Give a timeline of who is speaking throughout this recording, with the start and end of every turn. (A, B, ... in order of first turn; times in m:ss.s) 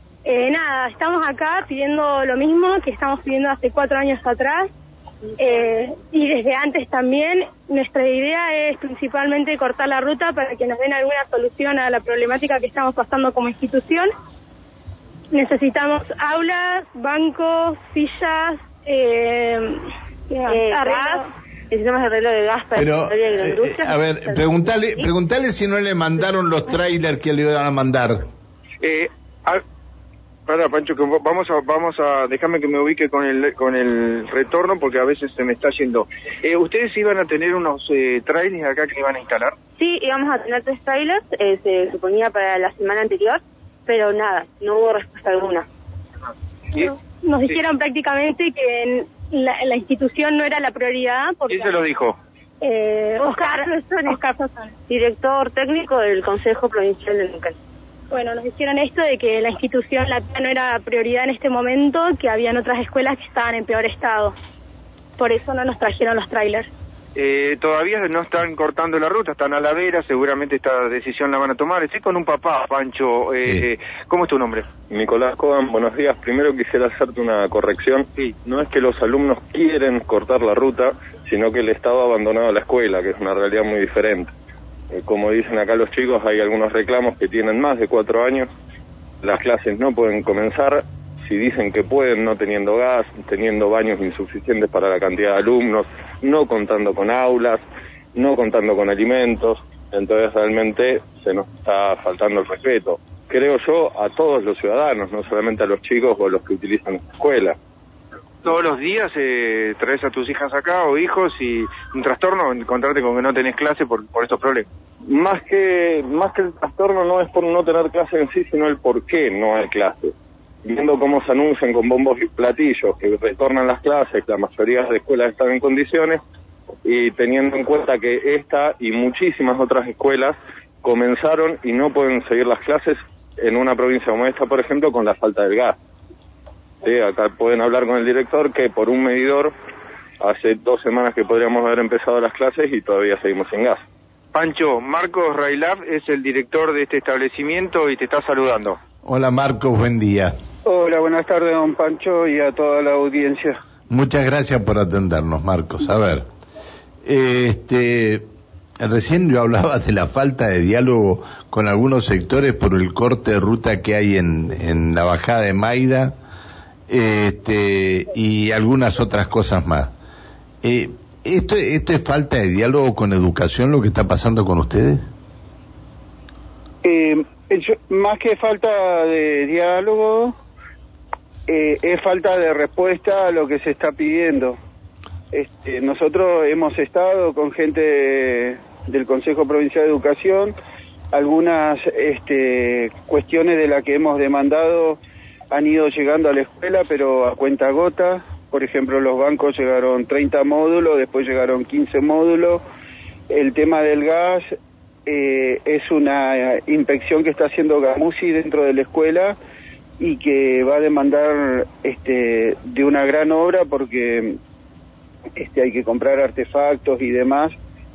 0:00.2-0:04.7 A
0:05.4-0:14.1 A
0:15.3-0:21.2 A
0:20.5-0:21.2 B
0:21.7-0:25.1 B
0:22.8-0:28.2 C
0:28.8-0:29.6 D
0:30.5-0:39.6 D
0:39.8-0:45.7 B
0:46.8-0:51.7 A
0:51.5-0:52.2 D
0:52.6-0:54.7 A
0:53.6-0:54.1 B
0:54.9-0:57.6 B
0:58.1-1:04.3 A
1:05.2-1:06.7 A
1:07.2-1:14.7 D
1:14.9-1:24.3 E
1:24.9-1:28.5 E
1:29.2-1:37.6 E
1:38.2-1:47.6 E
1:48.4-1:54.7 D
1:55.1-2:00.1 E
2:00.6-2:06.2 E
2:06.8-2:15.8 E
2:16.8-2:19.5 E
2:20.2-2:23.8 E
2:24.3-2:28.8 D
2:29.0-2:30.3 C
2:30.6-2:33.5 F
2:33.9-2:36.3 C
2:37.0-2:38.2 C
2:38.8-2:46.1 C
2:46.9-2:49.9 C
2:50.6-2:55.0 C
2:56.8-3:00.4 F
3:01.5-3:04.6 F
3:05.3-3:10.6 F
3:11.1-3:15.0 F
3:15.5-3:22.6 F
3:23.3-3:24.5 F
3:25.1-3:29.4 F
3:30.0-3:34.4 F
3:35.3-3:37.5 F